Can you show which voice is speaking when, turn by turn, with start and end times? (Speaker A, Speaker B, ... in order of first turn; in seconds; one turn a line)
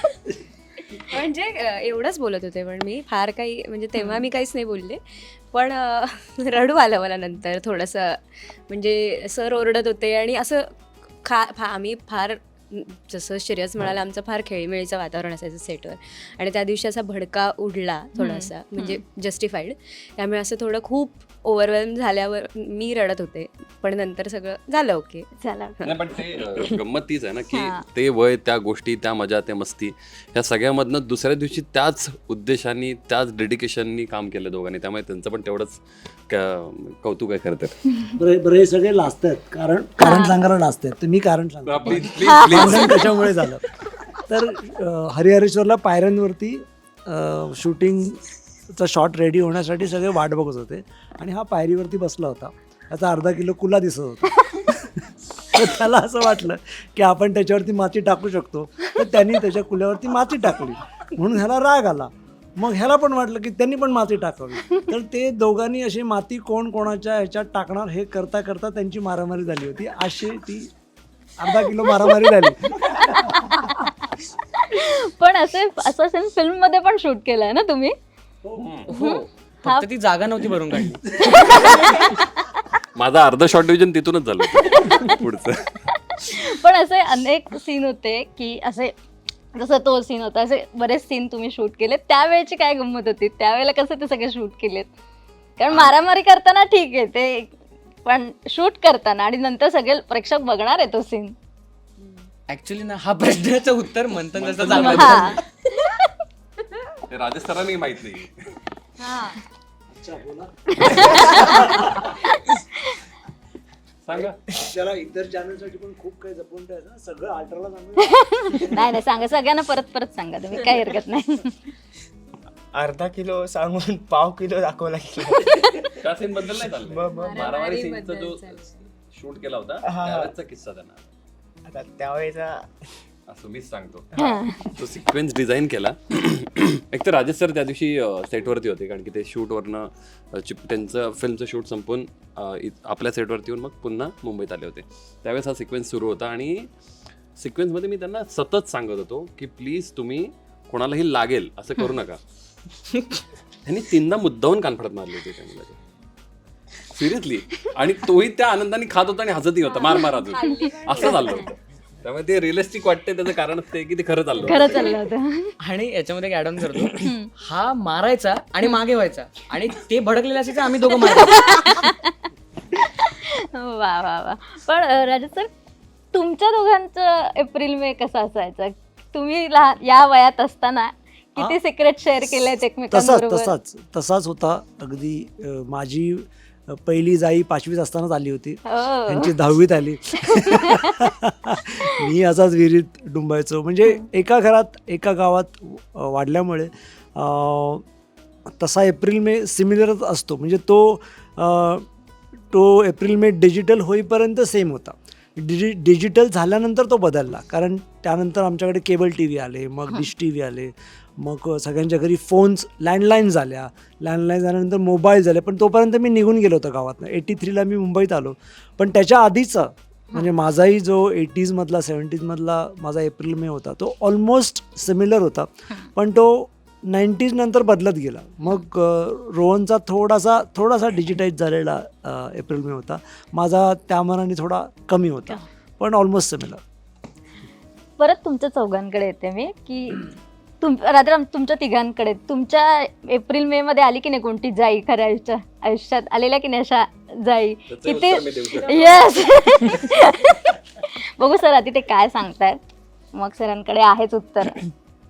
Speaker A: 1.1-25.3
Speaker B: 18.2-19.0
Speaker B: 25.4-25.7
Speaker C: 25.8-37.8
Speaker B: 27.5-27.8
Speaker D: 38.2-43.6
Speaker B: 40.0-40.4
Speaker C: 41.7-43.1
Speaker B: 42.3-42.9
Speaker D: 44.3-70.7
Speaker D: 71.4-73.5
Speaker B: 73.1-73.9
Speaker B: 74.7-77.9
Speaker C: 78.6-78.9
Speaker E: 78.9-81.6
Speaker B: 78.9-79.9
Speaker B: 81.2-82.4
Speaker C: 83.0-85.8
Speaker B: 84.6-85.2
Speaker B: 86.2-88.9
Speaker B: 89.5-94.9
Speaker B: 95.6-97.5
Speaker B: 98.0-101.3
Speaker E: 102.5-105.4
Speaker C: 104.4-105.3
Speaker B: 104.7-105.4
Speaker C: 107.1-108.3
Speaker D: 109.9-112.1
Speaker B: 111.0-111.4
Speaker C: 114.0-114.4
Speaker D: 114.2-119.0
Speaker B: 118.4-121.6
Speaker F: 122.7-126.0
Speaker C: 125.9-131.0
Speaker F: 126.9-127.5
Speaker A: 127.1-128.7
Speaker F: 129.8-130.3
Speaker F: 131.7-132.8
Speaker C: 133.3-146.7
Speaker F: 134.2-134.6
Speaker B: 134.2-134.6
Speaker C: 147.4-152.2
Speaker C: 153.7-155.8
Speaker C: 156.9-161.5
Speaker A: 159.8-161.4
Speaker C: 162.0-164.9
Speaker B: 164.4-165.5
Speaker E: 165.6-171.9
Speaker B: 166.9-167.3
Speaker B: 171.1-172.1
Speaker B: 172.8-175.5
Speaker B: 176.1-183.5
Speaker D: 182.9-197.8
Speaker B: 188.7-189.3
Speaker B: 190.3-190.9
Speaker D: 198.5-201.9
Speaker D: 202.5-236.6
Speaker B: 238.0-252.6
Speaker C: 247.7-249.1
Speaker B: 253.1-254.7